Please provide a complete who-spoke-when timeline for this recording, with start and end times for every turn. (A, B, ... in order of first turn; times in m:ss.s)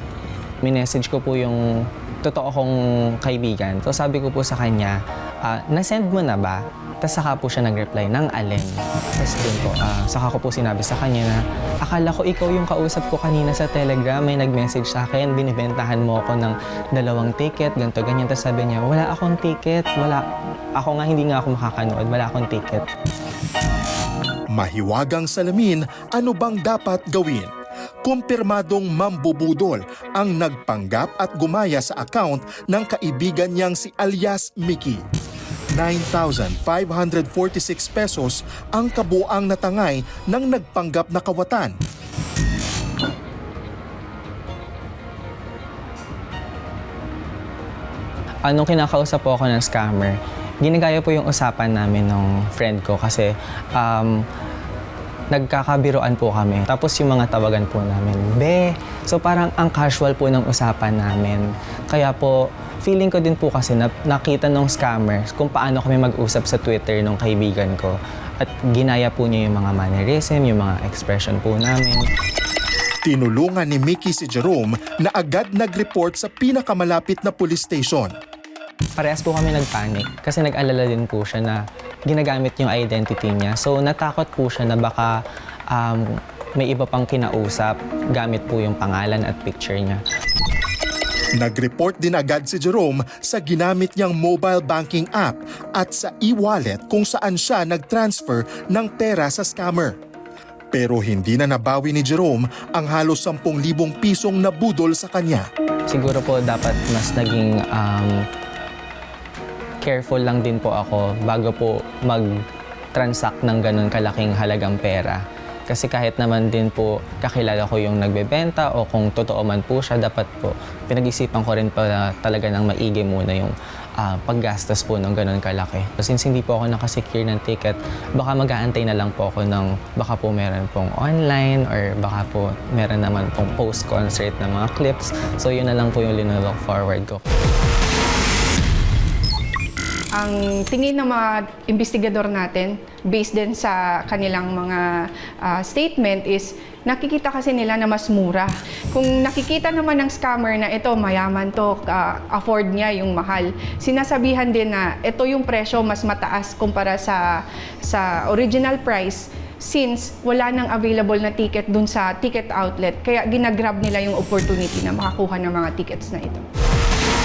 0:00.6-0:20.2 A
0:20.8-0:22.9 A
0:24.5-0:27.5 B
0:28.0-0:35.0 B
0:35.7-0:41.8 B
0:48.4-0:54.2 A
0:55.3-1:12.1 A
1:13.0-1:18.1 B
1:19.0-1:25.2 A
1:25.7-1:30.0 A
1:31.4-1:40.0 B
1:40.7-1:45.5 B
1:45.9-1:48.2 A
1:49.8-1:52.3 A
1:52.9-2:17.2 A
2:20.1-2:24.9 C
2:25.4-2:37.2 C
2:37.8-2:46.4 C